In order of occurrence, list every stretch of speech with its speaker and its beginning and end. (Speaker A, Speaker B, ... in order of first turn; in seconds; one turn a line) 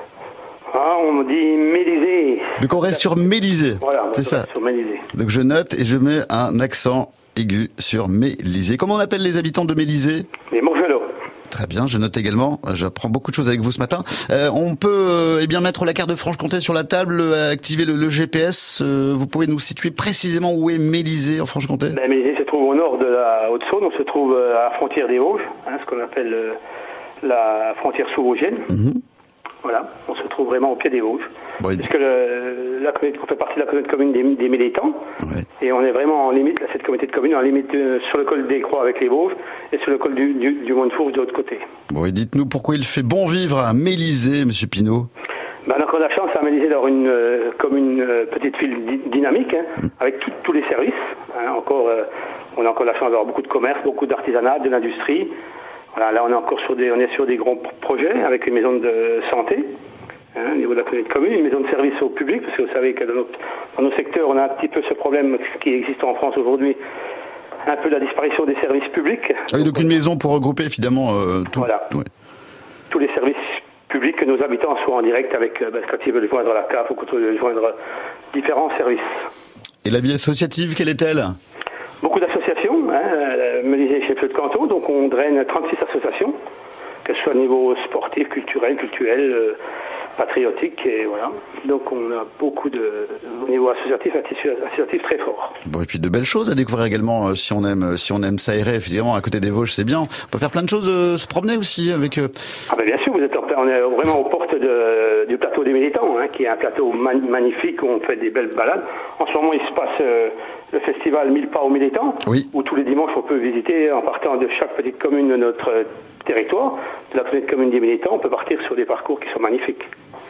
Speaker A: 0.7-2.6
Speaker B: 2.6-4.5
Speaker A: 3.8-5.1
Speaker B: 5.1-10.3
Speaker A: 10.5-11.1
Speaker B: 11.5-22.0
Speaker A: 21.9-26.6
Speaker A: 27.2-28.7
Speaker B: 28.7-29.0
Speaker A: 29.6-35.0
Speaker A: 35.6-41.6
Speaker B: 41.9-45.1
Speaker A: 45.6-55.3
Speaker A: 55.9-59.7
Speaker A: 60.3-66.8
Speaker A: 67.6-69.9
Speaker B: 69.5-72.0
Speaker A: 71.5-71.9
Speaker A: 72.9-77.7
Speaker A: 78.3-79.3
Speaker B: 79.8-81.3
Speaker A: 82.0-86.3
Speaker A: 87.0-89.6
Speaker A: 90.2-95.6
Speaker B: 95.6-102.3
Speaker A: 102.7-119.9